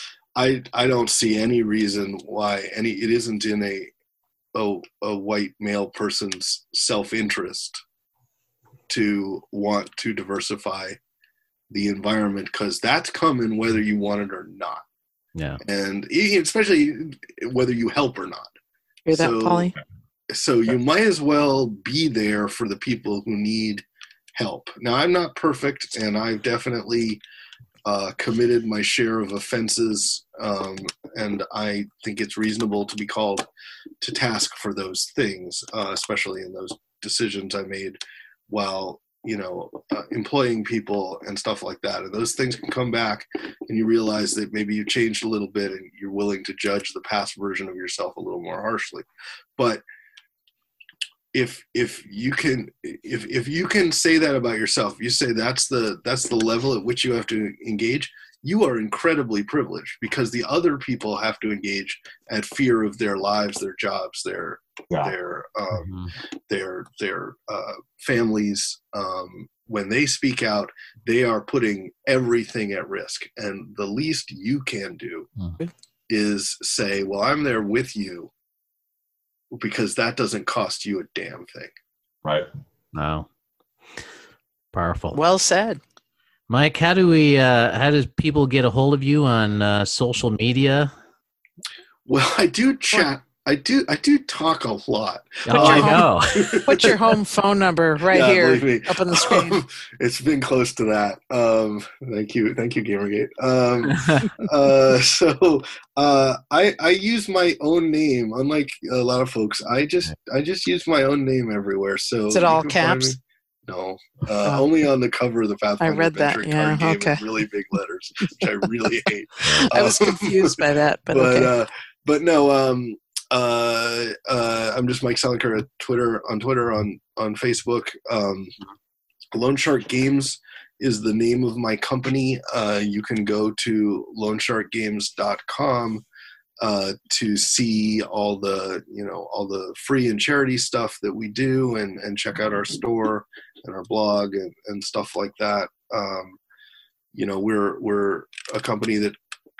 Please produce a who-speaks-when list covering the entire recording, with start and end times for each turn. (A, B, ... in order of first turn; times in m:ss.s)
0:00.3-0:03.9 A
0:04.5-0:07.8 A
0:08.9-0:11.0 A
0:11.7-0:14.8 A
0:15.3-0:15.6 B
0:15.6-0:18.5 A
0:19.0-0:19.7 C
0:19.1-0:19.7 A
0:20.3-0:27.2 A
0:27.8-0:33.5 A
0:34.0-0:49.0 A
0:49.6-0:49.8 A
0:51.3-1:05.9 A
1:05.7-1:06.1 B
1:06.5-1:15.3 A
1:16.1-1:18.3 A
1:19.5-1:21.7 A
1:22.9-1:23.3 B
1:24.7-1:25.2 B
1:25.1-1:25.8 C
1:26.5-1:30.9 B
1:32.0-1:36.9 A
1:35.5-1:36.6 B
1:35.5-1:36.1 C
1:36.6-1:39.6 C
1:38.1-2:00.5 A
1:44.0-1:44.3 B
1:52.3-1:53.2 C
1:55.8-1:57.2 C
1:59.5-2:01.5 C
2:01.1-2:08.5 A
2:09.3-2:16.0 A
2:16.6-2:26.4 A
2:27.1-2:29.2 A